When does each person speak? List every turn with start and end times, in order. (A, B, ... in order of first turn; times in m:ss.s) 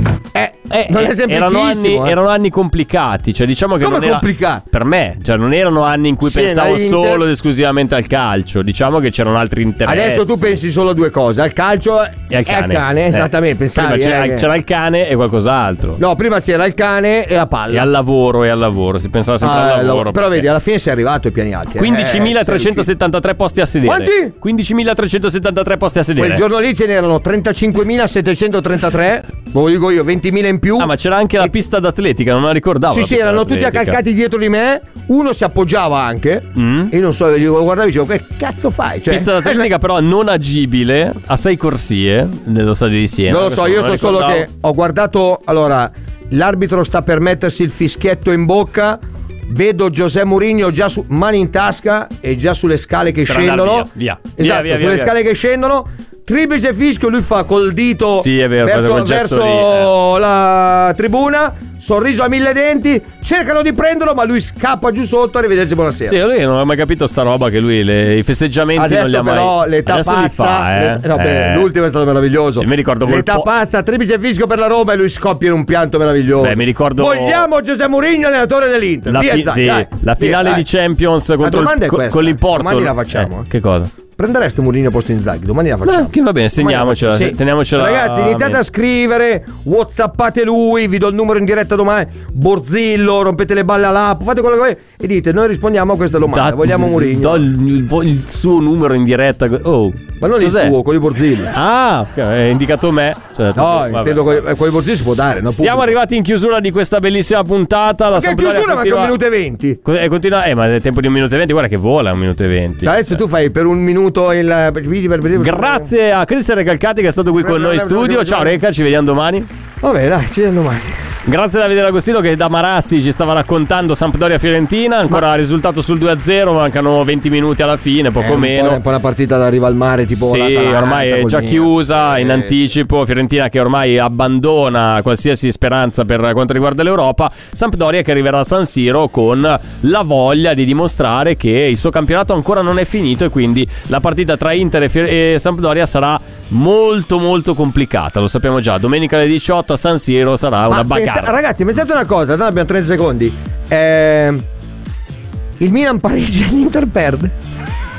0:00.3-0:02.2 A
0:00.7-0:10.6 B
0:03.8-0:04.6 A
0:06.2-0:07.3 A
0:09.8-0:14.5 A
0:12.3-0:16.0 B
0:16.0-0:17.9 A
0:17.7-0:20.4 B
0:19.4-0:22.9 A
0:21.8-0:26.4 B
0:23.8-0:24.3 A
0:26.2-0:31.6 A
0:30.8-0:34.0 B
0:32.9-0:39.7 A
0:36.6-0:36.9 B
0:39.1-0:44.5 B
0:43.3-1:06.2 A
0:53.3-0:55.1 B
0:58.2-0:59.9 B
1:06.1-1:11.7 B
1:08.8-1:20.7 A
1:12.6-1:13.5 B
1:16.4-1:17.5 B
1:19.1-1:23.9 B
1:21.4-1:23.5 A
1:24.1-1:37.5 A
1:25.8-1:28.6 B
1:36.3-1:40.8 B
1:40.2-1:41.5 A
1:41.5-1:44.4 B
1:43.6-1:46.0 A
1:45.5-1:49.2 B
1:48.1-1:49.8 A
1:49.8-1:53.2 B
1:52.8-1:55.9 A
1:55.4-1:59.5 B
1:57.3-1:58.6 A
1:59.8-2:01.0 A
2:01.3-2:08.8 B
2:08.2-2:12.7 A
2:10.1-2:31.3 B
2:30.7-2:34.4 A
2:35.6-2:37.3 A